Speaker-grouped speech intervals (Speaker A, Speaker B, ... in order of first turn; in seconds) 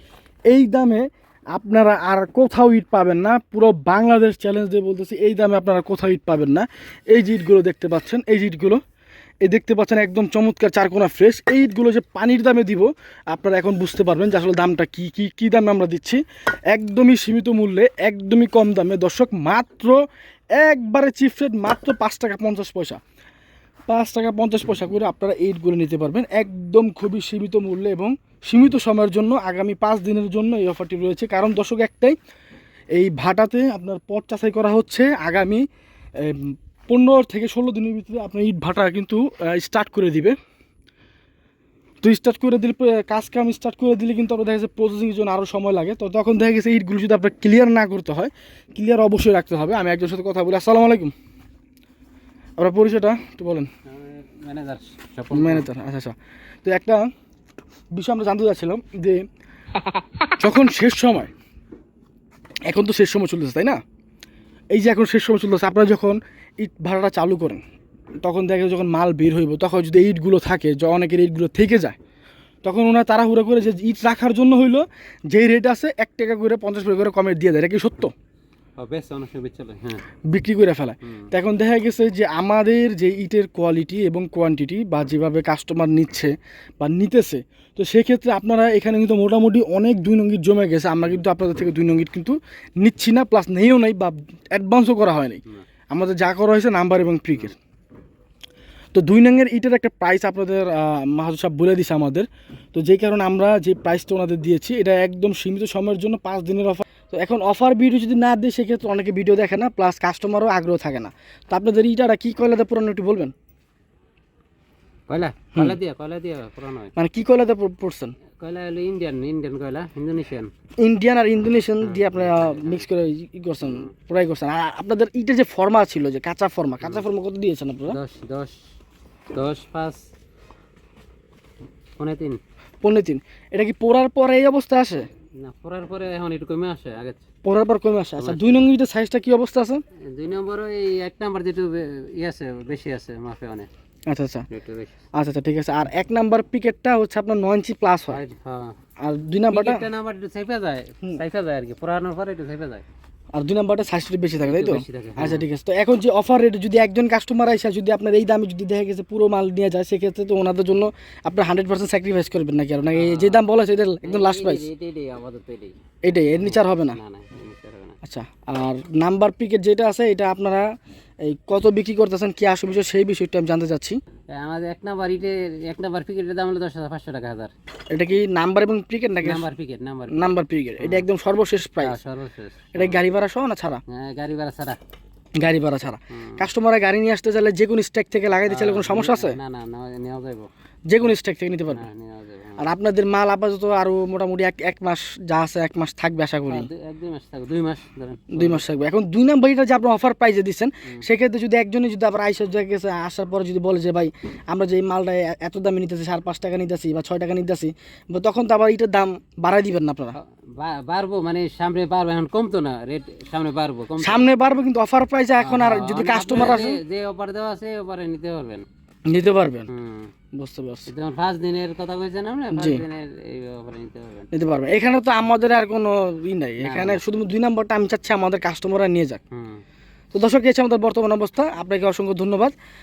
Speaker A: 0.5-8.8, 9.4-19.9, 20.6-23.0, 23.9-32.2, 32.9-35.6, 36.2-40.4, 42.0-51.1, 52.6-53.7, 55.3-57.1, 57.9-59.3, 60.3-61.3, 62.7-63.8, 64.7-67.6, 68.2-72.0, 72.6-78.1, 80.3-97.6, 99.0-113.3, 117.0-118.1, 120.8-128.0, 132.8-135.1, 137.4-139.8, 144.1-144.5, 145.2-148.2, 149.0-149.8, 153.3-164.7, 166.0-167.0, 168.0-170.7, 171.2-174.0, 177.9-179.4, 180.1-182.0, 182.8-183.8, 185.4-189.4, 190.9-191.8, 192.6-196.7, 198.3-210.2, 214.0-216.8, 219.1-219.7, 220.3-220.9, 222.5-222.8, 224.3-229.2, 230.1-232.6
Speaker B: 53.9-55.7, 78.8-80.0, 81.0-81.3, 115.1-116.9, 118.4-120.5, 121.8-122.9, 123.6-123.9, 126.8-127.1, 127.9-128.6, 129.3-130.0, 132.0-132.4, 135.4-137.2, 138.2-138.7, 140.0-143.7, 144.5-145.0, 148.1-148.7, 149.5-152.8, 154.4-155.5, 162.9-163.4, 164.0-168.0, 174.3-177.5, 179.2-181.1, 181.8-183.0, 183.9-184.8, 186.1-186.5, 188.5-190.5, 191.7-192.7, 196.5-198.7, 210.2-214.3, 215.4-218.7, 219.7-220.1, 220.9-224.3, 226.6-227.0, 229.3-229.6